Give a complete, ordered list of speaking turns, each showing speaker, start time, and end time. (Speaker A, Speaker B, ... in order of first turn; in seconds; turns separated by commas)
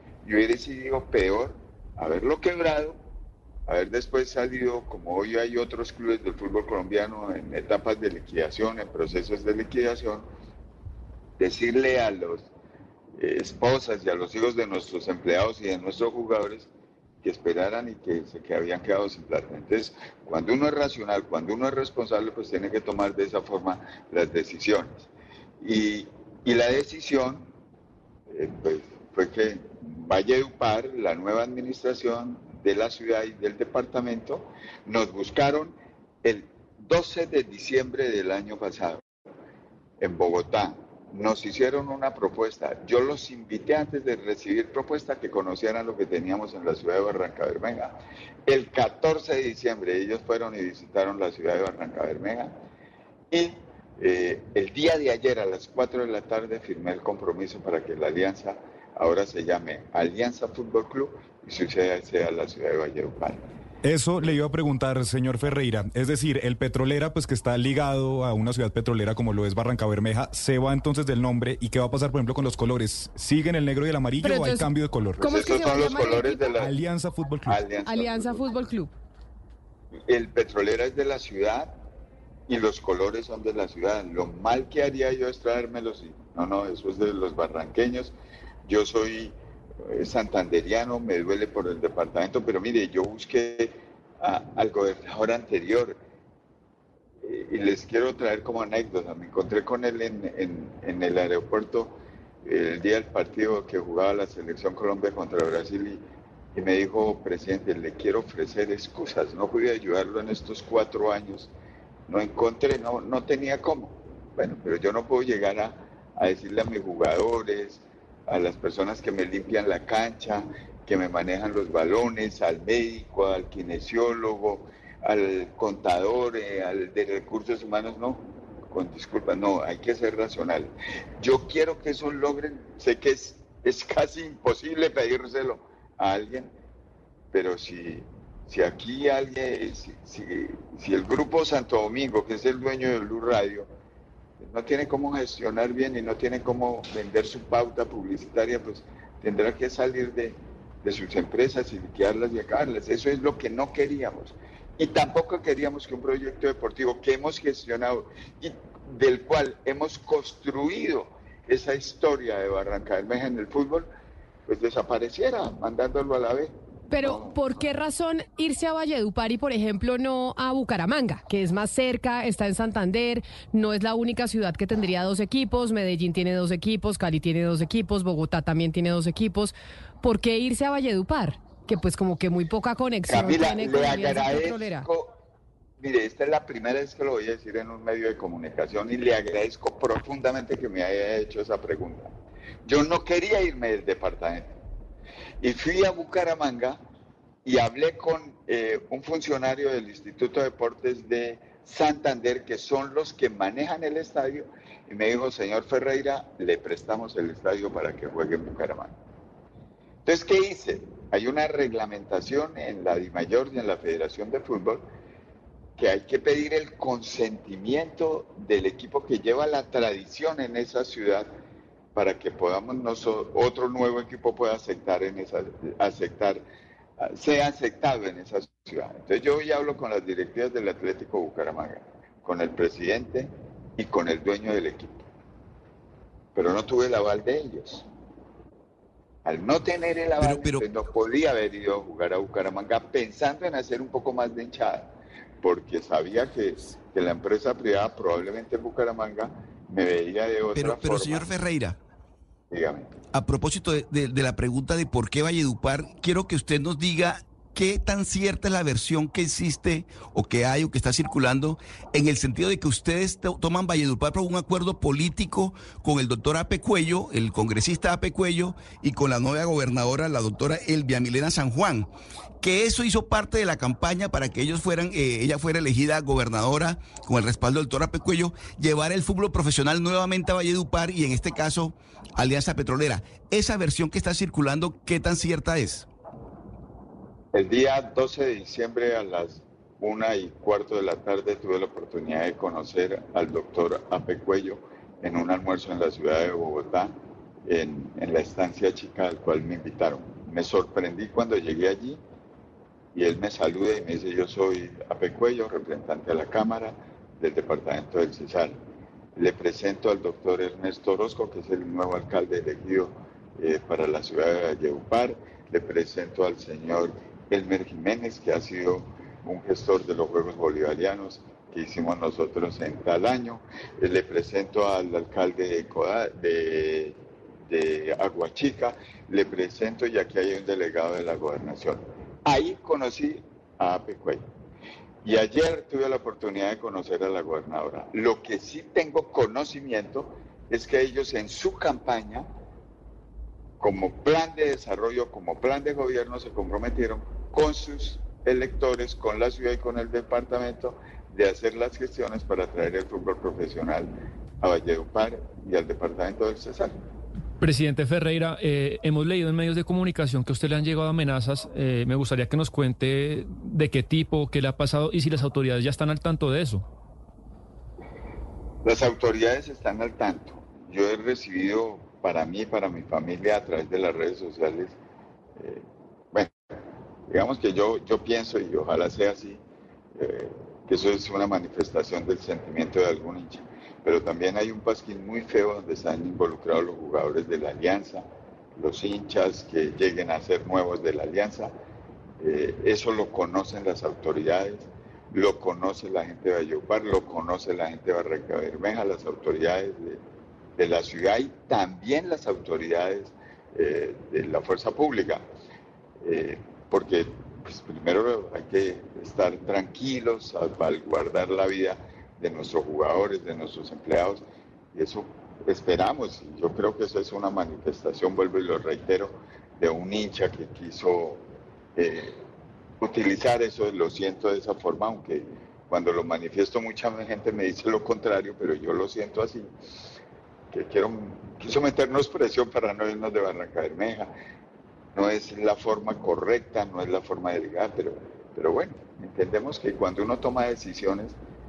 Speaker A: 0.2-3.0, Speaker A: 3.7-10.3, Speaker A: 11.4-12.5, Speaker A: 13.2-16.7, Speaker A: 17.2-25.1, Speaker A: 25.6-27.5, Speaker A: 28.3-39.0, Speaker A: 40.0-47.9, Speaker A: 48.5-52.5, Speaker A: 53.3-63.5, Speaker B: 63.8-77.6, Speaker C: 74.2-76.5, Speaker A: 75.3-76.8, Speaker A: 77.5-78.5, Speaker C: 77.8-78.9, Speaker A: 80.1-81.7, Speaker A: 82.5-88.1, Speaker A: 88.7-89.3, Speaker A: 89.9-96.0, Speaker A: 97.2-106.0, Speaker A: 106.5-111.5, Speaker A: 112.1-136.5, Speaker A: 137.3-143.7, Speaker A: 144.4-163.9, Speaker A: 164.5-167.4, Speaker C: 166.9-184.9, Speaker A: 183.1-185.1, Speaker A: 185.8-192.1, Speaker A: 192.7-194.6, Speaker A: 195.4-196.8, Speaker A: 197.4-208.9, Speaker A: 210.1-214.8, Speaker A: 215.8-221.3, Speaker A: 221.9-226.4, Speaker A: 227.0-235.1, Speaker A: 236.3-237.8, Speaker A: 239.2-244.9, Speaker D: 240.2-240.7, Speaker A: 245.4-251.3, Speaker D: 250.5-251.8, Speaker A: 252.5-253.0, Speaker D: 253.1-271.9, Speaker D: 272.4-285.9, Speaker A: 287.3-296.9, Speaker A: 297.5-302.0, Speaker A: 302.9-308.6, Speaker A: 309.2-327.0, Speaker A: 327.5-334.2, Speaker A: 335.0-342.3, Speaker A: 343.6-356.8, Speaker E: 357.4-366.6, Speaker A: 368.6-374.8, Speaker A: 375.4-376.3, Speaker A: 377.1-379.4, Speaker A: 380.0-391.5, Speaker A: 392.2-400.0, Speaker A: 400.6-405.2, Speaker A: 406.0-414.2, Speaker A: 414.8-421.2, Speaker A: 421.8-422.2, Speaker A: 422.8-429.5, Speaker A: 430.5-434.1, Speaker A: 434.9-441.1